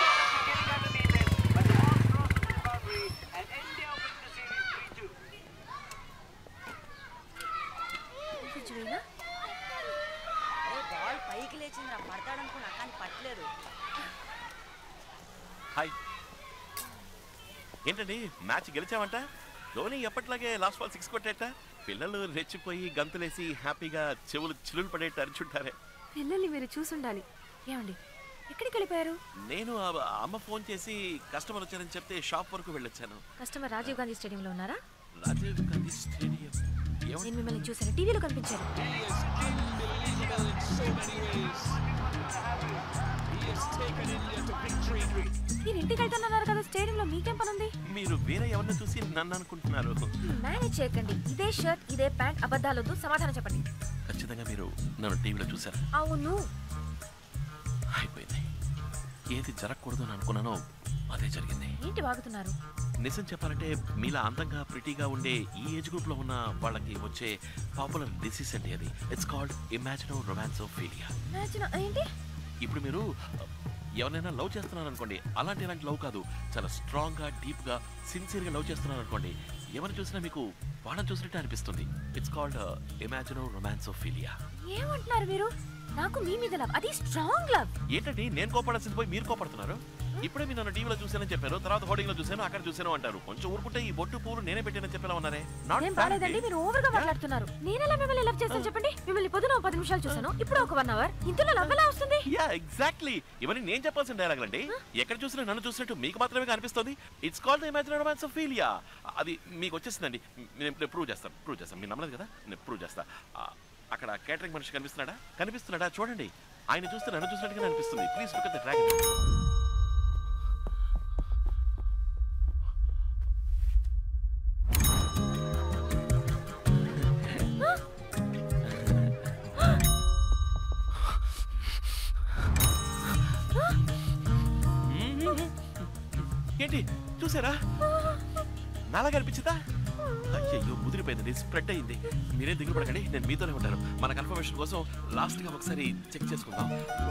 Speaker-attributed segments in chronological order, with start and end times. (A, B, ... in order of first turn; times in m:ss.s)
0:08.4-0:09.0 A
0:17.9-0:19.2 B
0:19.8-0:25.8 B
0:26.2-0:28.0 A
0:28.5-0:29.2 A
0:29.4-0:33.2 B
0:33.4-0:34.8 A
0:35.2-0:37.3 B
0:37.2-0:38.8 A
0:45.6-0:47.7 A
0:47.9-0:50.1 B
0:50.2-0:53.7 A
0:54.1-0:55.8 B
0:56.0-0:56.4 A
0:58.0-0:58.4 B
0:59.3-1:01.8 B
1:01.8-1:02.5 A
1:03.0-1:11.1 B
1:11.3-1:12.1 A
1:12.6-1:24.4 B
1:24.7-1:27.7 A
1:27.9-1:37.2 B
1:35.8-1:42.2 A
1:40.1-1:40.7 B
1:41.6-1:59.1 B
2:08.7-2:09.1 B
2:14.9-2:15.9 B
2:16.6-2:17.6 B
2:18.9-2:19.6 B
2:20.3-2:26.7 B